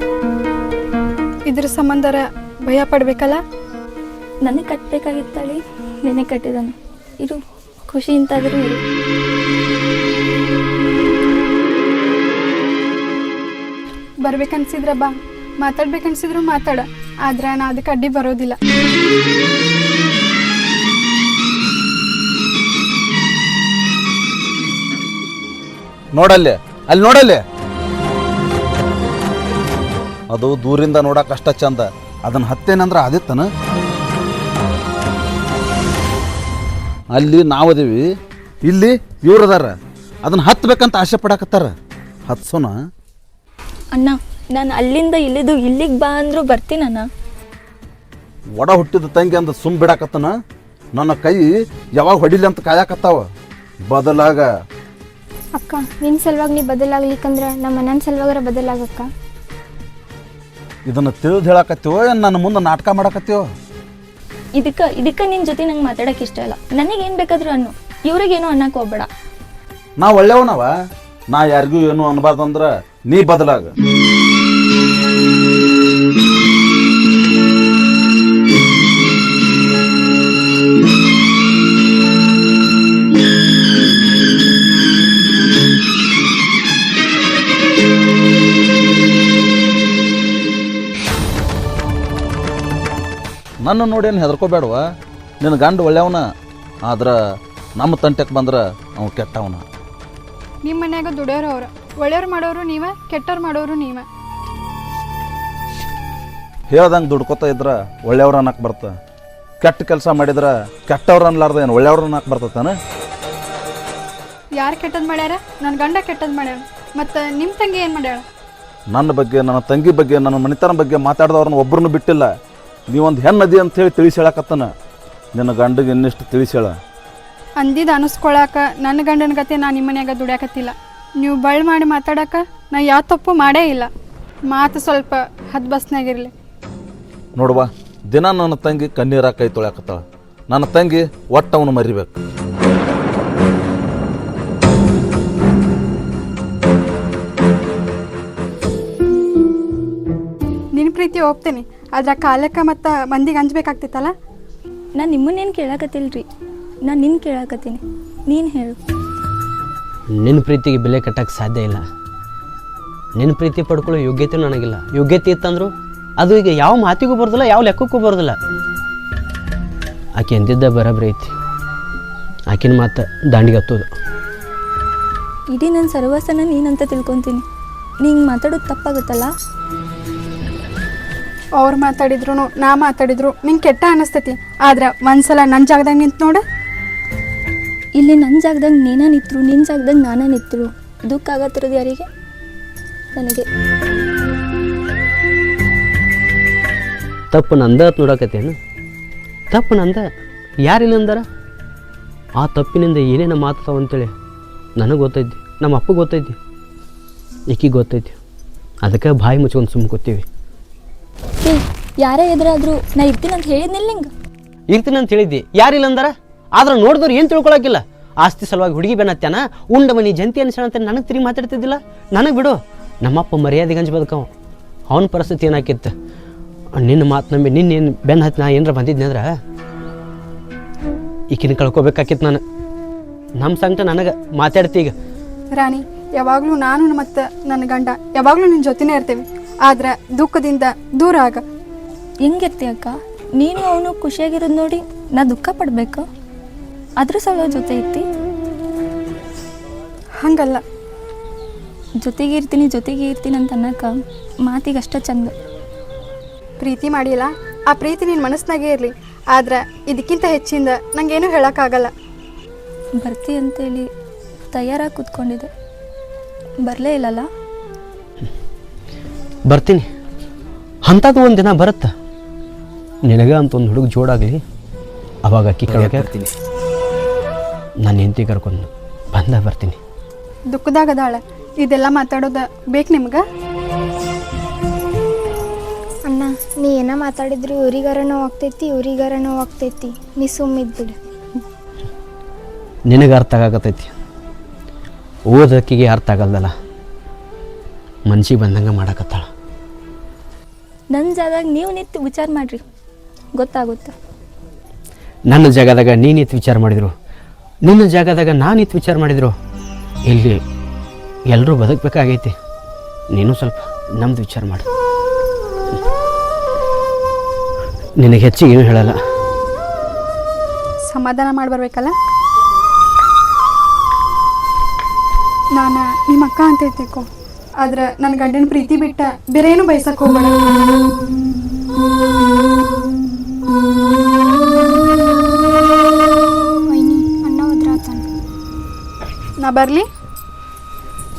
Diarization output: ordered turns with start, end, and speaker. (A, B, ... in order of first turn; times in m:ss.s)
0:01.5-0:03.4 A
0:04.4-0:08.8 B
0:14.2-0:18.6 A
0:26.1-0:27.4 C
0:30.3-0:33.5 C
0:37.1-0:38.1 C
0:38.6-0:39.7 C
0:40.2-0:41.7 C
0:42.3-0:42.7 C
0:43.9-0:47.0 B
0:48.6-0:50.3 C
0:50.9-0:53.2 C
0:53.8-0:54.5 C
0:55.6-0:59.1 D
1:00.9-1:03.4 C
1:04.6-1:09.1 B
1:10.0-1:10.7 C
1:11.3-1:13.7 C
1:33.6-1:34.8 C
1:35.4-1:36.2 C
1:36.8-1:37.1 C
1:37.8-1:39.6 C
1:40.6-1:44.0 A
1:46.7-1:48.9 C
1:49.6-1:52.7 C
1:54.6-1:58.2 A
1:58.9-2:02.3 C
2:02.9-2:04.7 C
2:05.3-2:06.7 C
2:07.6-2:13.9 A
2:14.5-2:16.3 A
2:17.4-2:22.1 C
2:30.7-2:34.1 A
2:35.0-2:36.2 B
2:36.9-2:38.8 B
2:40.2-2:41.8 E
2:43.2-2:48.4 E
2:50.2-2:51.3 E
2:52.5-2:53.9 E
2:55.5-2:57.4 B
2:58.0-2:59.3 B
3:01.6-3:06.4 A
3:08.0-3:12.1 B
3:13.1-3:13.4 B
3:17.3-3:18.6 E
3:19.5-3:20.0 E
3:20.7-3:21.2 E
3:22.4-3:24.1 E
3:24.8-3:26.4 E
3:27.5-3:28.2 E
3:28.8-3:30.2 E
3:31.4-3:34.1 B
3:34.7-3:44.3 E
3:44.9-3:45.9 E
3:46.8-3:49.3 E
3:51.3-3:52.4 E
3:53.4-3:54.9 E
3:55.5-4:01.4 A
4:02.2-4:06.0 B
4:07.0-4:08.0 B
4:10.2-4:10.6 A
4:12.0-4:13.9 B
4:14.4-4:15.3 B
4:16.6-4:21.9 A
4:23.0-4:23.8 B
4:24.5-4:25.5 B
4:26.6-4:27.2 B
4:29.5-4:29.9 E
4:30.9-4:31.9 E
4:33.1-4:34.4 E
4:35.3-4:36.3 E
4:37.8-4:39.8 E
4:40.5-4:43.2 A
4:46.0-4:51.0 D
4:52.9-4:53.9 E
4:55.3-4:56.5 E
4:58.1-4:59.2 E
5:00.9-5:02.6 B
5:03.4-5:03.9 B
5:05.3-5:06.9 E
5:07.6-5:09.3 E
5:10.1-5:10.4 E
5:11.3-5:12.3 E
5:13.1-5:14.6 E
5:18.0-5:19.0 E
5:20.9-5:21.9 A
5:25.6-5:27.1 A
5:27.6-5:30.3 A
5:36.7-5:38.0 D
5:39.4-5:39.8 A